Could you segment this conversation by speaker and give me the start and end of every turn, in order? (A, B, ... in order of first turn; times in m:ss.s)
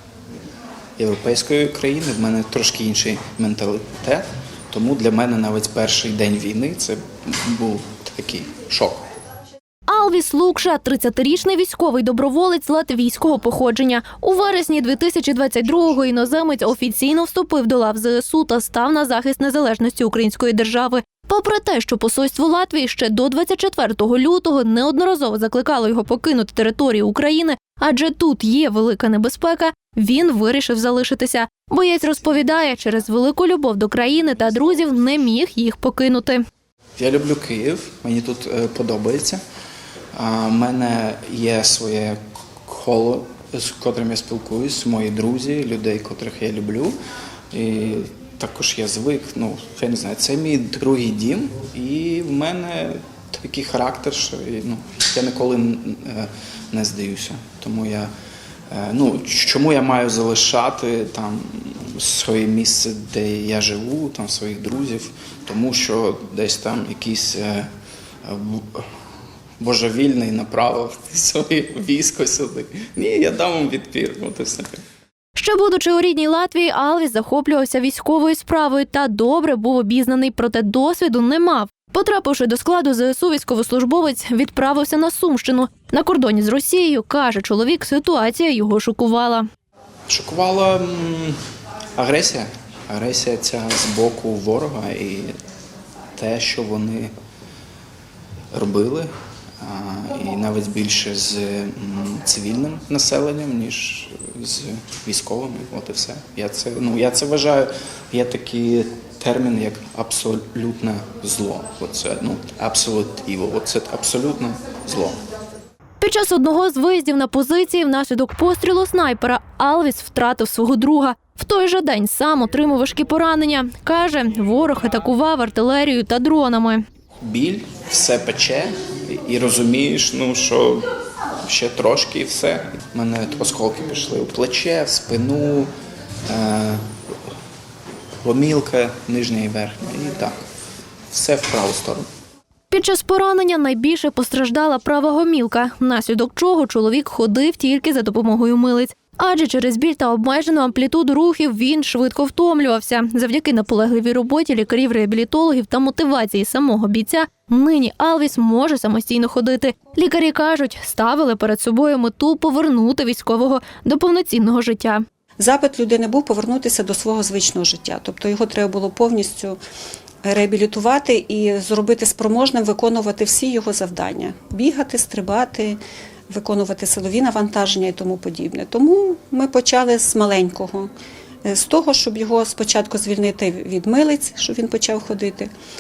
0:01.0-0:09.0 A
0:09.9-0:36.4 B
0:37.0-0:39.4 A
0:40.2-0:47.0 A
0:47.5-0:58.1 A
0:58.7-1:07.7 A
1:08.2-1:08.9 A
1:09.6-1:14.7 A
1:15.4-1:29.5 B
1:30.1-1:31.4 A
1:32.0-1:35.4 A
1:36.2-1:37.1 A
1:38.5-1:39.1 A
1:39.6-1:55.2 A
1:56.0-2:06.8 B
2:07.2-2:10.9 A
2:11.4-2:15.7 A
2:16.3-2:16.9 A
2:18.2-2:20.4 A
2:21.1-2:22.1 A
2:22.7-2:45.0 B
2:45.4-2:49.6 C
2:50.2-3:00.9 C
3:01.4-3:05.5 C